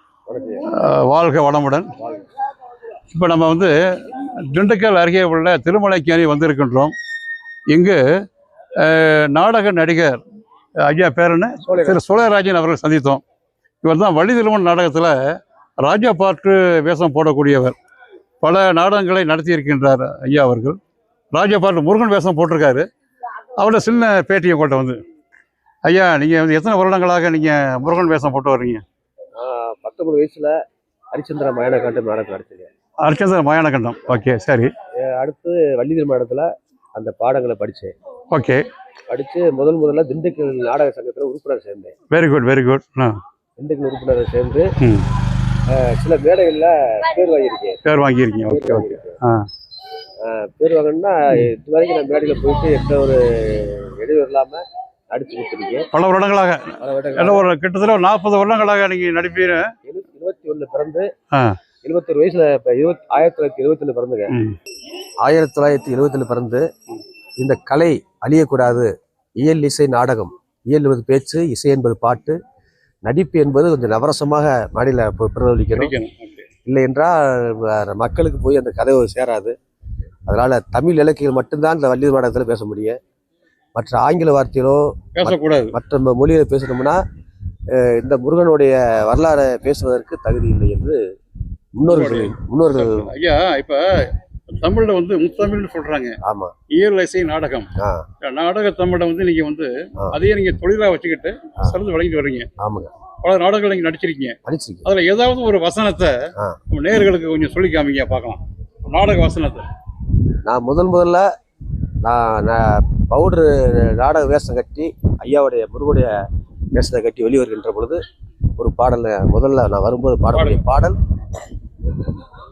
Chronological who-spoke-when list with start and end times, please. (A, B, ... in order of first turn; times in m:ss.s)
0:00.3-0:00.7 A
0:00.7-0:01.9 B
0:02.0-0:02.3 A
0:03.1-0:06.9 B
0:07.7-0:08.0 B
0:08.8-0:10.2 B
0:10.8-0:13.2 B
0:11.6-0:12.0 A
0:13.8-0:15.1 B
0:15.8-0:17.7 B
0:18.4-0:20.8 B
0:21.3-0:22.8 B
0:23.6-0:25.0 B
0:25.8-0:28.8 B
0:29.4-0:30.5 A
0:31.1-0:32.7 A
0:33.0-0:34.7 B
0:35.0-0:37.9 A
0:38.3-0:38.6 B
0:39.1-0:41.9 A
0:42.1-0:43.2 B
0:43.6-0:44.7 A
0:44.8-0:45.0 B
0:45.7-0:47.8 A
0:47.8-0:49.4 B
0:48.5-0:49.2 A
0:50.2-0:55.9 A
0:55.9-0:59.7 B
0:56.8-0:57.5 A
0:59.8-1:01.0 A
1:01.3-1:01.6 B
1:01.8-1:04.3 A
1:04.3-1:04.6 B
1:05.2-1:06.6 A
1:07.4-1:08.9 A
1:09.4-1:12.4 A
1:13.0-1:15.9 A
1:15.7-1:16.5 B
1:16.6-1:19.5 A
1:20.3-1:23.0 A
1:23.8-1:27.0 A
1:25.2-1:25.7 B
1:27.7-1:31.0 A
1:31.8-1:33.1 A
1:31.9-1:33.8 B
1:34.5-1:36.1 B
1:36.2-1:36.5 A
1:36.7-1:37.7 B
1:38.2-1:42.5 B
1:42.6-1:42.9 A
1:43.2-1:46.1 B
1:44.4-1:44.8 A
1:46.7-1:49.7 B
1:50.5-1:51.2 A
1:52.0-1:56.1 A
1:56.7-1:58.0 A
1:58.6-2:01.0 A
2:00.3-2:00.6 B